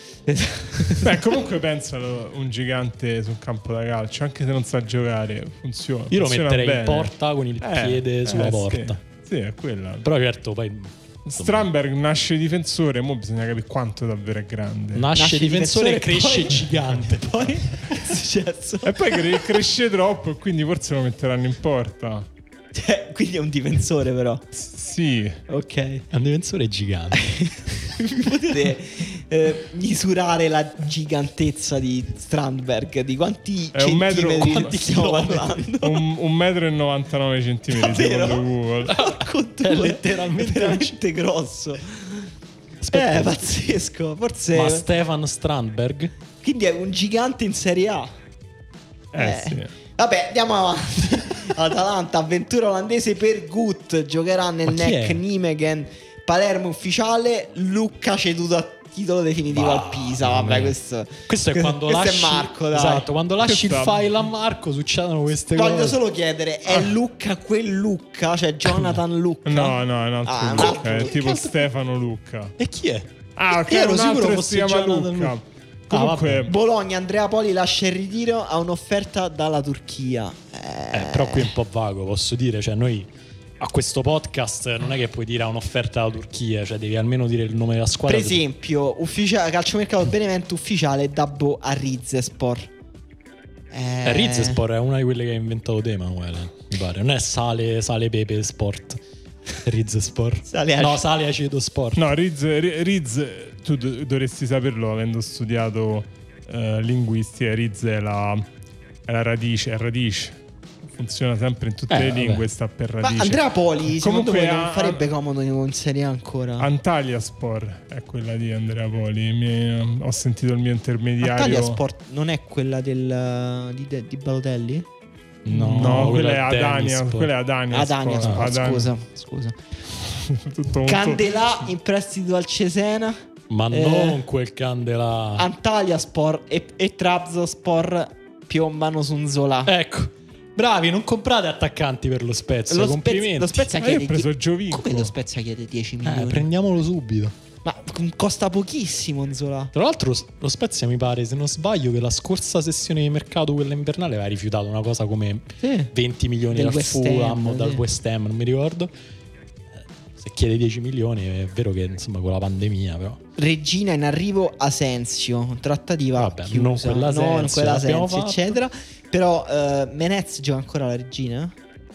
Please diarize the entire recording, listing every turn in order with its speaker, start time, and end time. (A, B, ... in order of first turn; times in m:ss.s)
0:00.3-0:01.2 A
0:01.0-0:10.0 B
0:06.1-0:09.0 C
0:10.0-0:11.7 C
0:11.2-0:15.1 B
0:14.9-0:17.5 C
0:15.1-0:19.6 A
0:18.8-0:22.3 B
0:22.7-0:24.4 A
0:24.5-0:25.4 B
0:25.5-0:26.0 A
0:26.1-0:27.3 C
0:27.1-0:36.0 A
0:33.7-0:34.8 B
0:34.4-0:35.6 C
0:35.8-0:39.0 B
0:37.7-0:42.3 A
0:38.9-0:40.9 C
0:42.8-0:43.5 C
0:42.9-0:44.8 A
0:44.5-0:46.1 C
0:46.4-0:48.1 A
0:49.1-0:49.7 B
0:49.2-1:03.1 A
0:54.7-0:55.2 C
0:59.5-1:00.7 C
1:01.3-1:06.0 C
1:03.4-1:04.0 B
1:05.5-1:11.1 A
1:09.4-1:12.5 B
1:10.5-1:11.6 C
1:12.6-1:15.4 C
1:13.4-1:16.5 B
1:15.9-1:16.4 C
1:16.4-1:21.5 A
1:20.9-1:28.4 C
1:28.1-1:32.7 A
1:33.7-1:34.6 A
1:34.0-1:39.0 C
1:39.6-1:42.0 C
1:40.5-1:41.0 A
1:41.9-1:48.4 B
1:49.1-1:50.4 B
1:50.9-1:55.1 B
1:51.9-1:52.4 C
1:53.0-1:56.7 A
1:56.6-2:01.8 B
2:01.2-2:04.9 A
2:05.4-2:07.3 C
2:05.5-2:08.9 B
2:07.7-2:09.6 A
2:10.1-2:11.4 B
2:10.8-2:13.2 A
2:13.5-2:15.5 C
2:13.7-2:14.2 A
2:15.4-2:19.7 A
2:19.6-2:23.7 C
2:22.7-2:26.5 A
2:23.7-2:25.1 B
2:26.0-2:27.3 C
2:27.6-2:29.7 A
2:29.7-2:38.9 C
2:35.6-2:35.9 A
2:36.5-2:37.8 A
2:40.2-2:43.2 C
2:43.4-2:51.5 A
2:46.2-2:48.5 C